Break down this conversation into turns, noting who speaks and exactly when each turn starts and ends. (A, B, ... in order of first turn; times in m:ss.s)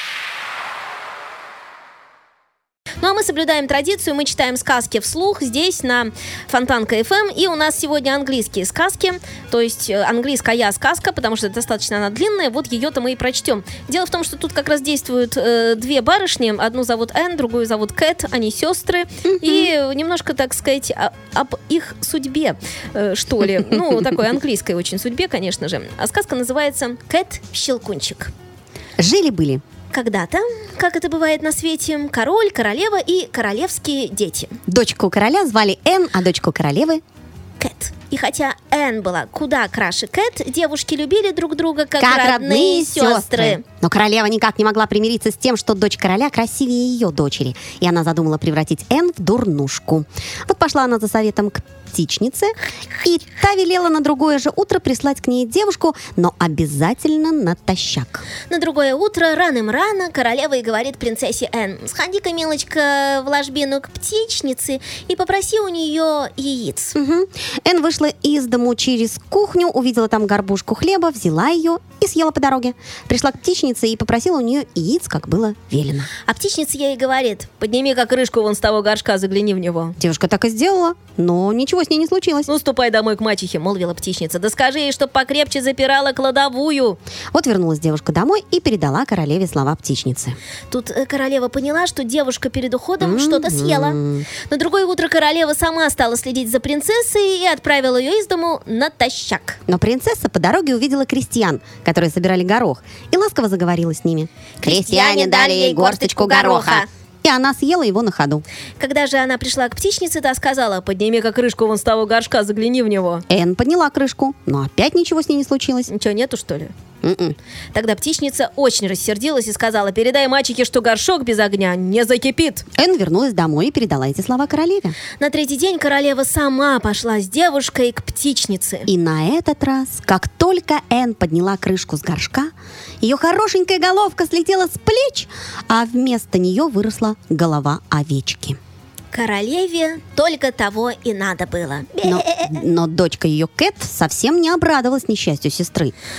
0:03.0-0:28.3 A
0:19.4-0:19.7 B
0:29.0-0:29.6 B
0:29.9-0:34.6 A
0:34.7-0:37.0 B
0:37.6-0:43.6 A
0:42.0-0:58.2 B
0:58.5-1:07.0 A
1:07.0-1:16.1 B
1:16.2-1:20.0 A
1:20.0-1:22.5 B
1:22.5-1:27.0 A
1:27.3-1:30.4 B
1:30.7-1:39.6 A
1:33.0-1:34.3 B
1:39.7-1:48.4 B
1:44.6-1:46.9 A
1:48.8-1:53.2 A
1:53.3-1:55.9 B
1:55.9-1:56.7 A
1:57.0-1:57.4 B
1:57.7-2:02.6 A
2:02.8-2:04.9 B
2:05.2-2:08.9 A
2:08.8-2:12.5 B
2:13.0-2:18.6 B
2:19.1-2:22.6 A
2:22.0-2:25.9 B